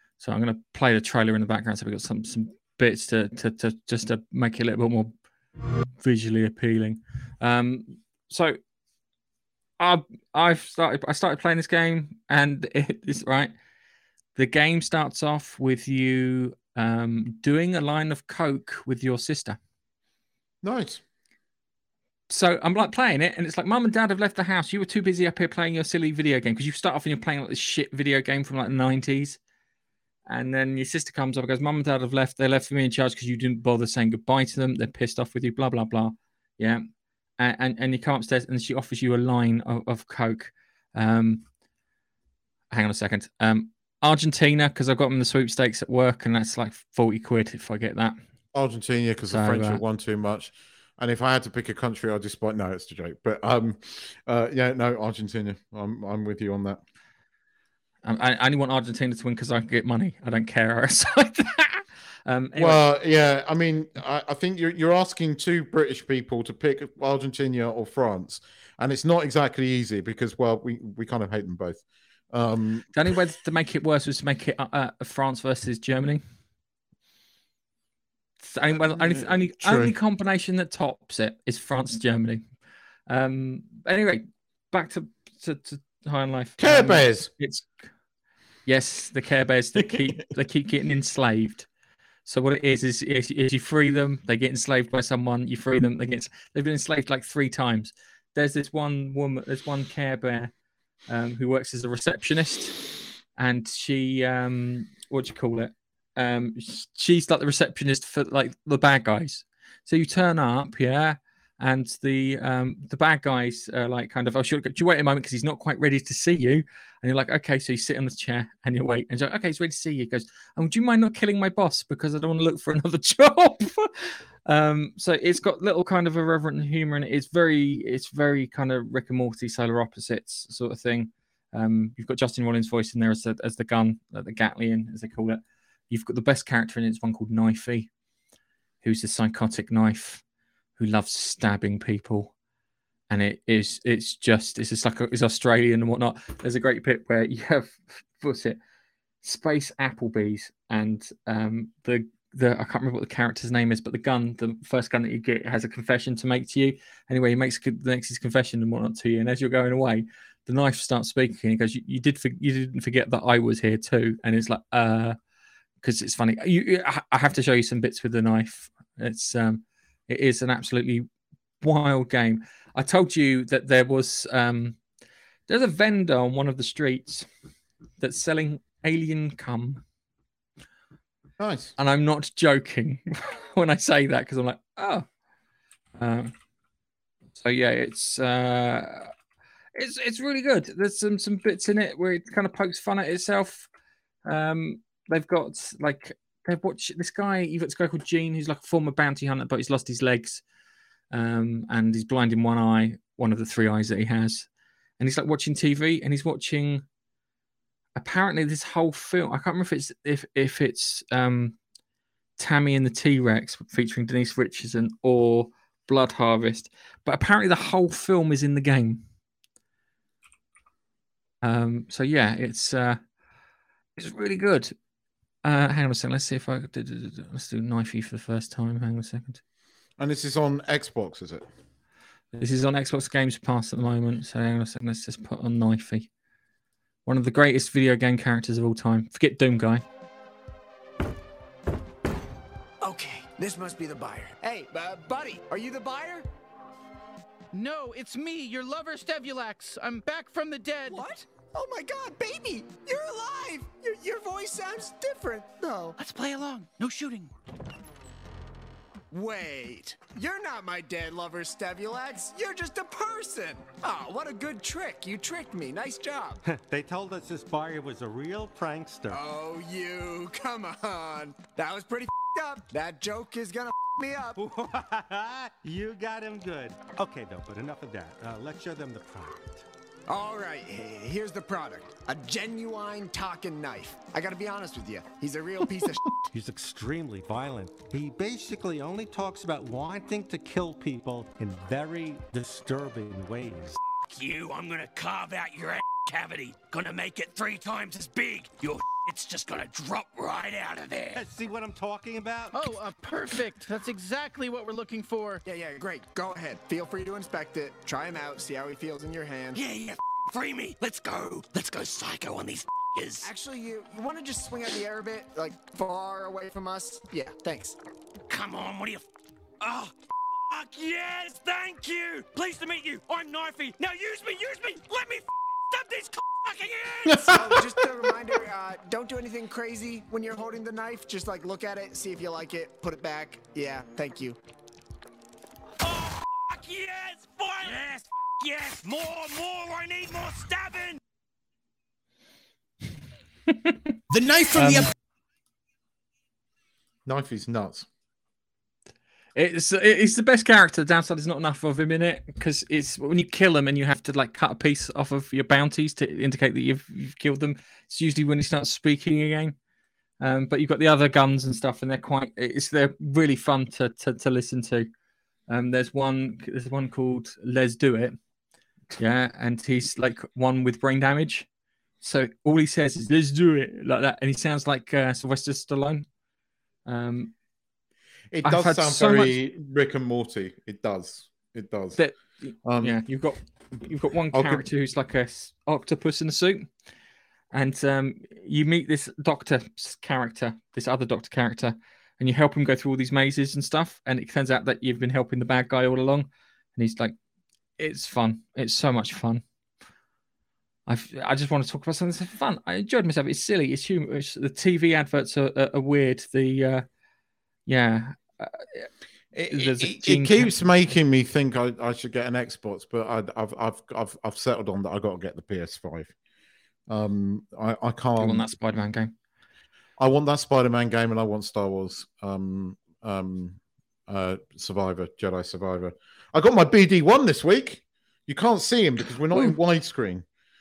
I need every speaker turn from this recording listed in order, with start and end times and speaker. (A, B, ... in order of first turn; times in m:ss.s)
0:00.2-0:05.1 A
0:06.0-0:08.6 A
0:09.8-0:13.5 A
0:14.4-0:19.6 A
0:20.6-0:21.0 B
0:22.3-0:29.4 A
0:30.3-0:36.8 A
0:37.4-0:41.4 A
0:42.7-0:48.2 A
0:48.5-0:56.8 B
0:49.3-0:49.8 A
0:58.0-1:02.8 A
1:02.6-1:12.9 B
1:13.0-1:16.2 A
1:18.4-1:22.5 A
1:18.9-1:20.0 B
1:23.1-1:27.8 A
1:26.6-1:27.3 B
1:28.7-1:31.7 A
1:29.8-1:30.2 B
1:32.2-1:40.5 A
1:41.1-1:42.8 A
1:43.4-2:17.9 A
2:18.8-2:20.2 A
2:20.8-2:22.3 A
2:23.1-2:28.6 A
2:29.2-2:45.2 A
2:45.8-2:51.1 A
2:51.6-2:54.8 A
2:55.5-2:57.3 A
2:58.0-2:59.8 A
3:01.4-3:01.8 B
3:01.8-3:05.1 A
3:06.0-3:06.3 A
3:07.4-3:09.1 A
3:09.8-3:13.7 A
3:14.3-3:20.4 A
3:21.1-3:24.5 A
3:25.0-3:26.8 A
3:28.0-3:31.6 A
3:32.4-3:39.0 A
3:41.4-3:43.0 A
3:44.0-3:44.7 A
3:45.4-3:49.4 A
3:50.0-3:51.5 B
3:52.3-3:56.1 A
3:57.1-3:59.8 A
4:02.8-4:06.3 C
4:07.5-4:11.0 D
4:10.9-4:16.0 C
4:16.0-4:17.3 D
4:19.1-4:26.4 C
4:26.5-4:29.2 E
4:29.1-4:34.4 C
4:34.4-4:39.6 E
4:40.1-4:46.2 C
4:46.3-4:53.8 E
4:54.0-5:01.2 F
5:01.2-5:02.7 E
5:02.5-5:05.4 D
5:05.4-5:09.6 C
5:09.5-5:13.3 F
5:13.2-5:17.8 C
5:18.3-5:19.0 F
5:19.6-5:27.3 F
5:27.0-5:27.6 B
5:27.3-5:34.4 C
5:35.8-5:41.0 F
5:43.5-5:43.8 A
5:44.1-5:44.9 B
5:44.5-5:44.9 A
5:47.1-5:47.9 B
5:49.4-5:59.6 A
6:00.2-6:04.9 A
6:05.5-6:08.2 A
6:09.0-6:11.5 A
6:12.0-6:16.1 A
6:16.9-6:17.3 A
6:18.3-6:22.0 B
6:18.4-6:19.3 A
6:22.0-6:26.7 A
6:22.6-6:23.0 B
6:24.3-6:24.7 B
6:27.5-6:37.2 A
6:37.8-6:39.4 A
6:40.9-6:46.8 A
6:47.7-6:48.9 A
6:49.3-6:56.1 B
6:49.5-6:50.5 A
6:56.9-6:58.4 B
6:58.2-6:59.1 A
7:00.0-7:10.2 B